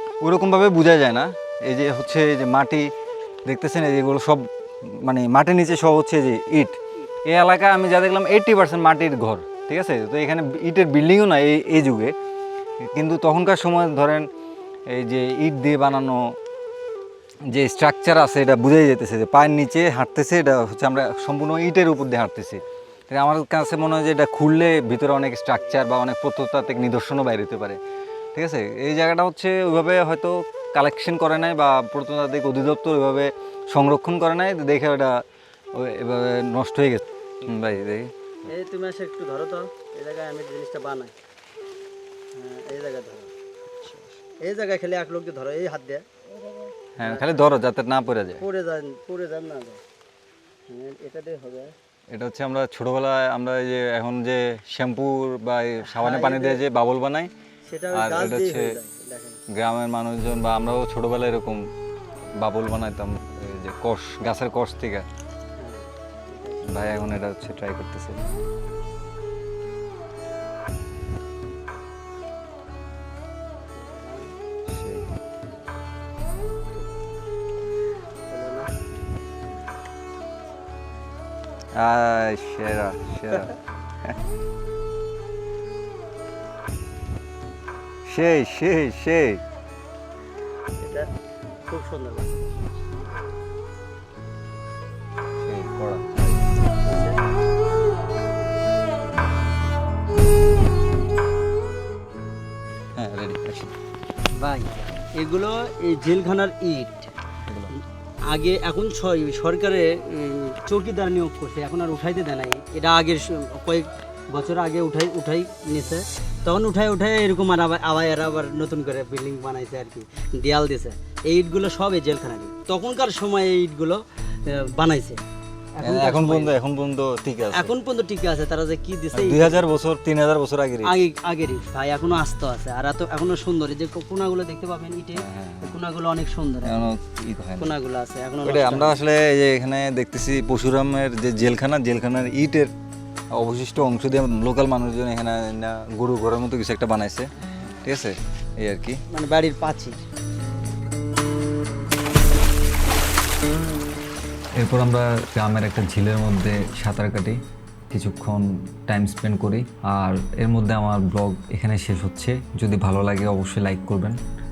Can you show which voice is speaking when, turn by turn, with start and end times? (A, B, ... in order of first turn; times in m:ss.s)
0:00.2-0:02.9 A
0:03.5-0:04.5 A
0:05.0-0:12.1 A
0:12.9-0:14.2 A
0:14.9-0:16.2 A
0:17.5-0:27.8 A
0:28.4-0:35.2 A
0:35.8-0:38.5 A
0:38.5-0:41.1 B
0:42.4-0:43.3 B
0:44.4-0:46.0 B
0:47.0-0:48.4 A
0:47.0-0:47.4 B
0:48.4-0:49.8 B
0:50.7-0:51.7 B
0:52.1-0:57.3 A
0:56.0-0:56.6 B
0:57.7-0:59.4 B
0:57.9-0:58.8 A
0:59.6-1:01.6 A
1:02.4-1:05.0 A
1:05.6-1:07.0 B
1:06.6-1:08.2 A
1:13.8-1:14.3 B
1:14.7-1:15.1 A
1:18.3-1:18.7 B
1:21.8-1:23.6 A
1:28.1-1:29.4 A
1:31.7-1:32.3 B
1:35.4-1:36.3 A
1:43.0-1:43.7 A
1:44.4-1:47.1 B
1:48.3-2:05.2 B
2:05.8-2:06.5 B
2:05.8-2:07.8 A
2:07.5-2:09.6 B
2:09.1-2:11.0 A
2:10.8-2:16.9 B
2:15.2-2:15.8 A
2:16.6-2:17.8 A
2:17.6-2:19.0 B
2:18.4-2:22.7 A
2:23.4-2:27.3 A
2:27.8-2:29.0 A
2:29.1-2:30.0 B
2:34.6-2:37.4 A
2:37.9-2:44.2 A